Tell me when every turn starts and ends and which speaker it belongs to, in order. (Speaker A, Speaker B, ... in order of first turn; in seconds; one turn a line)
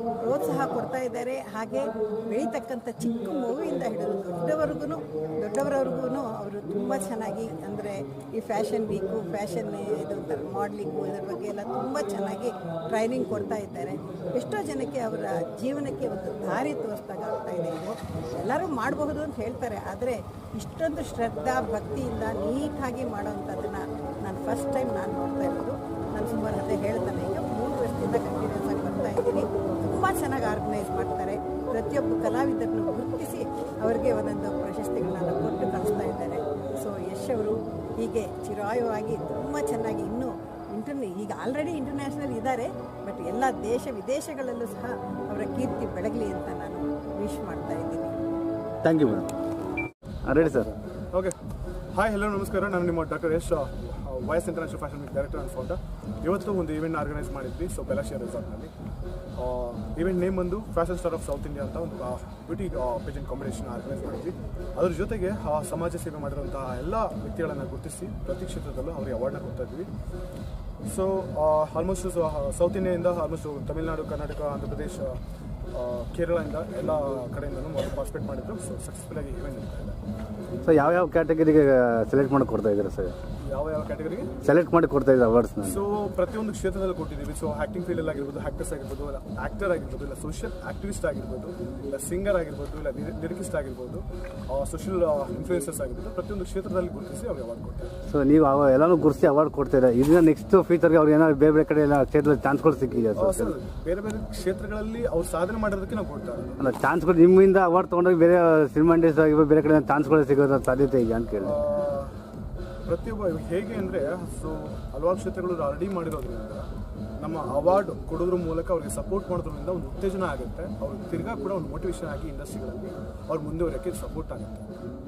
Speaker A: 0.2-48.1
Speaker B: 48.8-49.3
Speaker B: 50.3-50.8
Speaker C: 52.0-58.7
Speaker C: 59.4-69.9
Speaker C: 70.9-75.2
Speaker C: 75.7-80.0
Speaker B: 80.6-83.2
Speaker C: 83.4-84.3
Speaker B: 84.4-85.8
Speaker C: 85.7-97.9
Speaker B: 98.1-103.5
Speaker C: 103.2-106.5
Speaker B: 106.6-111.6
Speaker C: 111.4-112.1
Speaker C: 112.9-116.7
Speaker C: 117.2-124.6